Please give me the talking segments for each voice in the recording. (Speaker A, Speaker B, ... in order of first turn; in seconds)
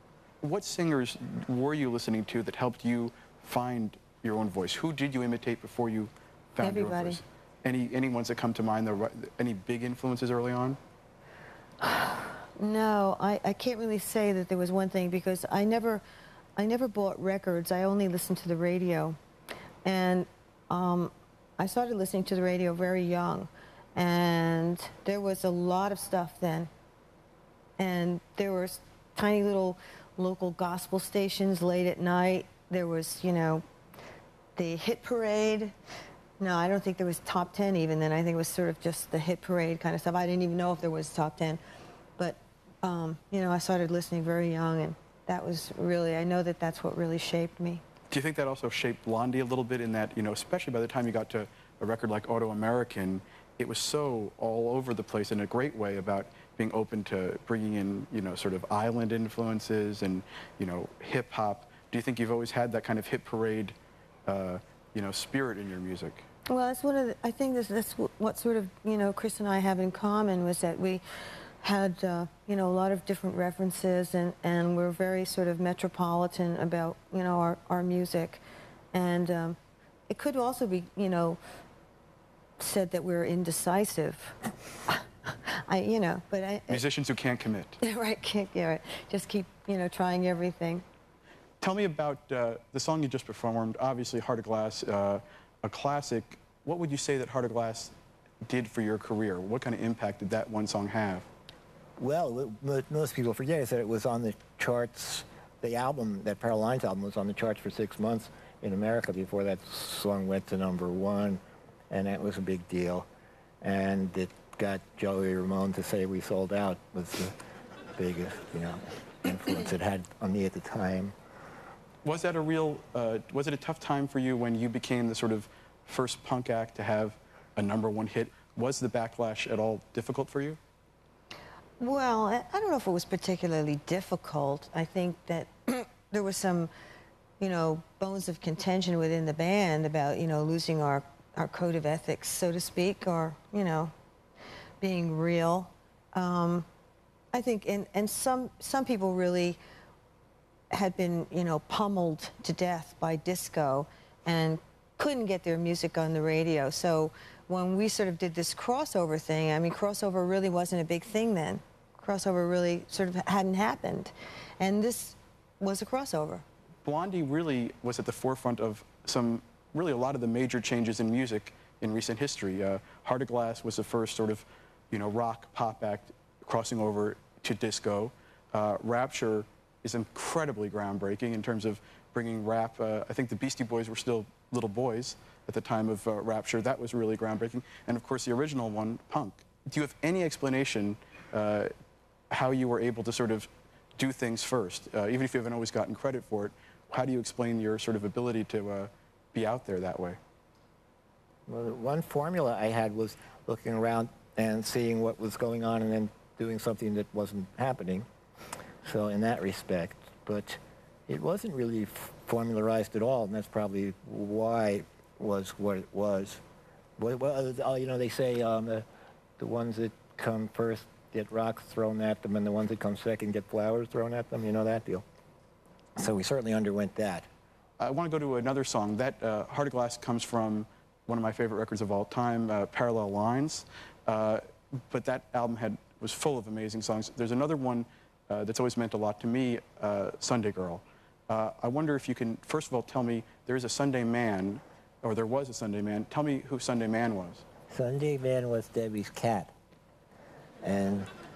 Speaker A: 0.4-10.8, 48.1-63.8, 64.3-66.2, 86.7-87.8, 91.6-97.9, 98.5-101.3, 122.0-130.6, 166.8-191.7, 192.3-200.2, 227.8-247.4
Speaker B: 6.6-7.2, 11.8-16.0, 16.6-19.2, 19.9-26.7, 27.8-33.6, 34.6-35.7, 36.4-41.6, 42.2-47.8, 66.5-71.0, 71.6-78.4, 78.9-79.6, 80.1-81.4, 82.6-84.4, 84.9-86.8, 87.8-90.8, 131.8-136.7, 137.4-143.9, 144.8-146.7, 147.3-149.6, 150.7-166.4
Speaker C: 102.0-113.1, 113.6-117.4, 118.0-121.1, 201.5-208.1, 208.8-216.4, 217.0-218.8, 219.4-225.1, 226.0-227.3, 247.7-249.5, 250.6-251.1